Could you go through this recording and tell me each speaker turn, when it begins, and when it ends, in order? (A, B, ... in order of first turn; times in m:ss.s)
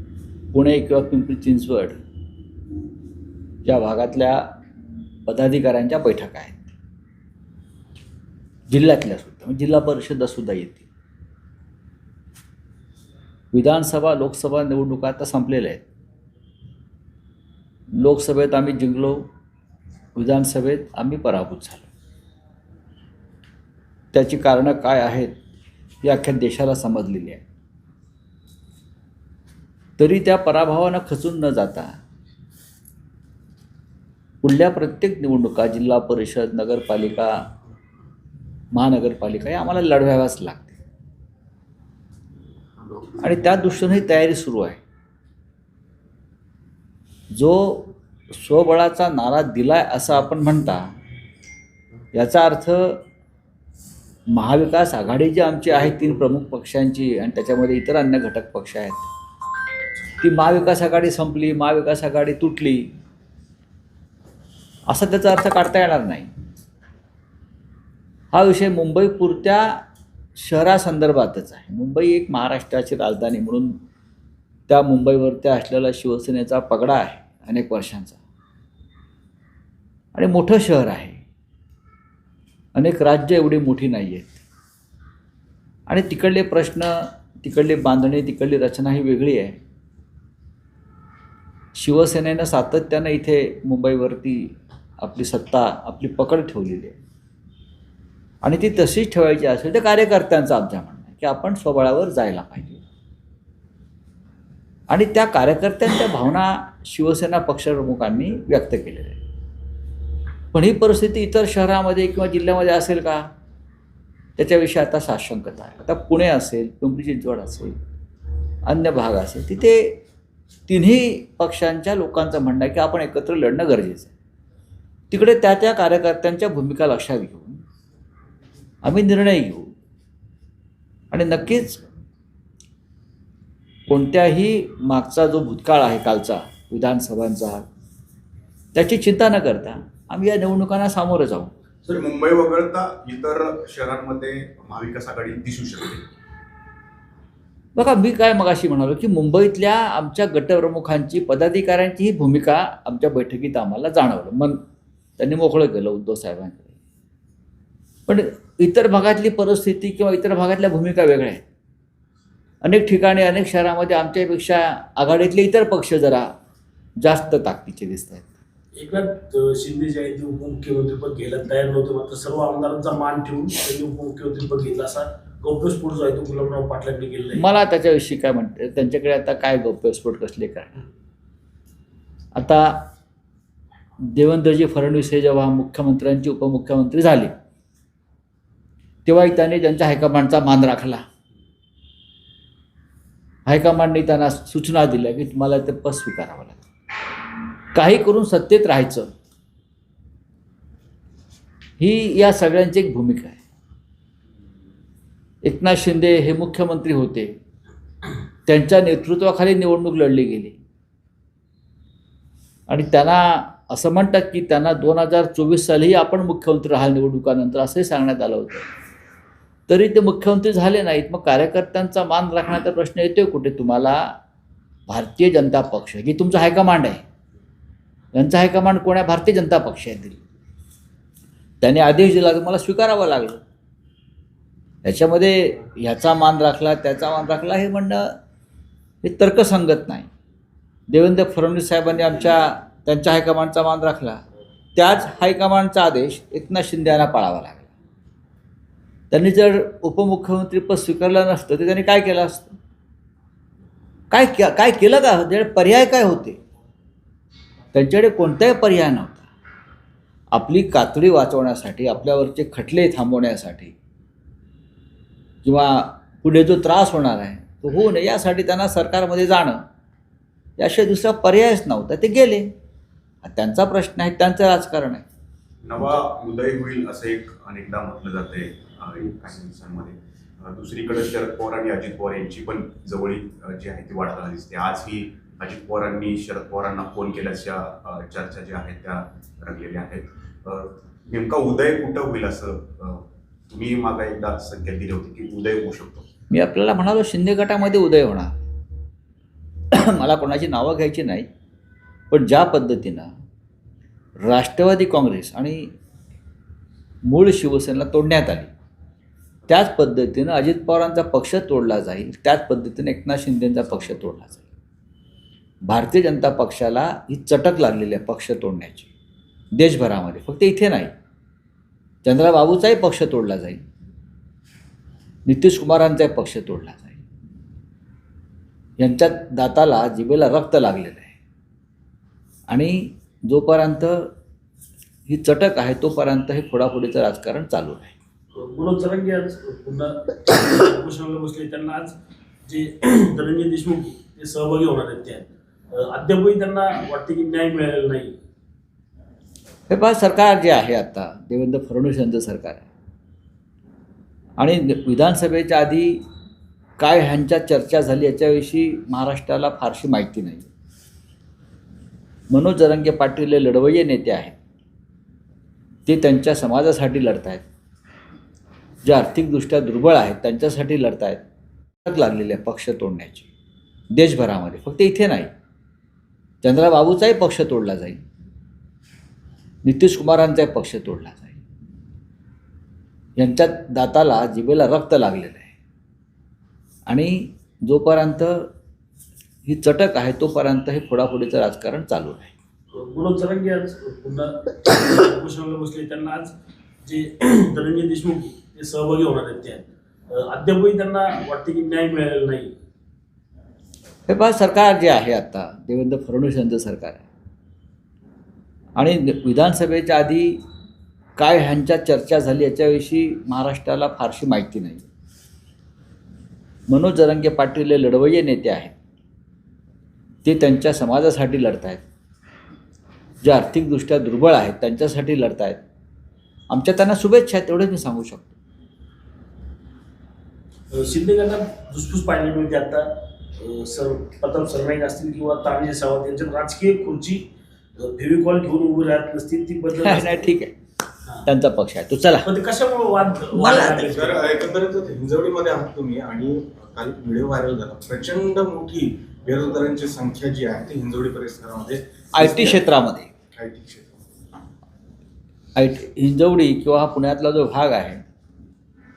0:00.5-0:02.0 A
0:03.6-0:04.5 A
0:05.3-0:06.7 A
0:08.7-0:10.9 A
0:13.5-0:15.8 A
0:18.0-0:19.3 A
0:20.2-0:21.9 A
0:24.1-0:25.3 A
0:26.0-0:27.4 A
0:30.0-0:32.0 A
0:34.4-0:37.4 A
0:38.7-0:40.8 A
0:43.2-0:44.8 A
0:47.4-0:50.9 A
0:52.1-0:53.0 A
0:54.3-0:59.1 A
1:00.2-1:02.9 A
1:04.9-1:06.3 A
1:08.3-1:09.8 A
1:10.4-1:13.8 A
1:14.7-1:18.2 A
1:20.1-1:21.2 A
1:22.8-1:24.4 A
1:25.9-1:29.6 A
1:31.8-1:37.0 A
1:38.4-1:42.8 A
1:44.9-1:49.2 A
1:50.5-1:53.3 A
1:54.4-1:57.8 A
1:58.7-2:00.0 A
2:00.7-2:04.1 A
2:05.1-2:07.6 A
2:08.8-2:09.7 A
2:11.1-2:11.8 A
2:13.9-2:17.6 A
2:18.8-2:21.5 A
2:21.9-2:26.1 B
2:27.8-2:34.6 A
2:35.2-2:36.7 A
2:38.1-2:41.4 A
2:42.6-2:46.3 A
2:47.0-2:48.3 A
2:48.8-2:57.4 C
2:57.4-3:00.8 A
3:02.4-3:02.9 A
3:04.1-3:07.3 A
3:09.0-3:11.0 A
3:13.5-3:16.6 A
3:17.7-3:19.1 A
3:21.8-3:23.4 A
3:25.4-3:27.4 A
3:28.5-3:30.6 A
3:32.7-3:38.7 A
3:39.7-3:44.2 A
3:44.9-3:47.0 A
3:48.1-3:50.2 A
3:51.6-3:53.4 A
3:54.8-3:58.2 A
3:59.0-4:00.1 A
4:00.9-4:04.2 A
4:04.8-4:07.7 A
4:09.1-4:12.6 A
4:14.1-4:16.4 A
4:17.7-4:19.3 A
4:20.3-4:23.7 A
4:25.4-4:29.6 A
4:30.6-4:32.5 A
4:33.2-4:35.0 A
4:35.6-4:56.1 B
4:56.3-4:58.4 A
4:59.7-5:01.3 A
5:02.1-5:03.1 A
5:04.2-5:05.7 A
5:07.1-5:08.5 A
5:09.5-5:14.6 A
5:15.7-5:18.9 A
5:19.6-5:20.9 A
5:22.0-5:23.6 A
5:25.3-5:27.0 A
5:28.8-5:31.1 A
5:32.5-5:34.1 A
5:35.1-5:38.0 A
5:38.3-5:42.0 C
5:42.5-5:48.1 C
5:49.7-5:52.7 A
5:54.4-5:56.0 A
5:56.8-6:00.5 A
6:02.3-6:04.4 A
6:05.9-6:07.4 A
6:08.8-6:11.2 A
6:11.8-6:13.3 A
6:13.9-6:15.3 A
6:16.4-6:18.0 A
6:19.6-6:21.4 A
6:23.2-6:25.5 A
6:26.9-6:28.5 A
6:29.5-6:32.3 A
6:32.7-6:36.3 C
6:36.8-6:42.5 C
6:44.1-6:47.1 A
6:48.8-6:50.4 A
6:51.2-6:54.9 A
6:56.7-6:58.7 A
7:00.2-7:01.8 A
7:03.2-7:05.6 A
7:06.5-7:08.3 A
7:10.7-7:17.2 C
7:17.8-7:20.3 C
7:19.7-7:20.5 A
7:21.3-7:22.3 A
7:22.2-7:24.3 C
7:23.4-7:23.8 A
7:23.4-7:32.7 D
7:32.2-7:33.1 A
7:33.3-7:34.0 D
7:35.6-7:38.0 A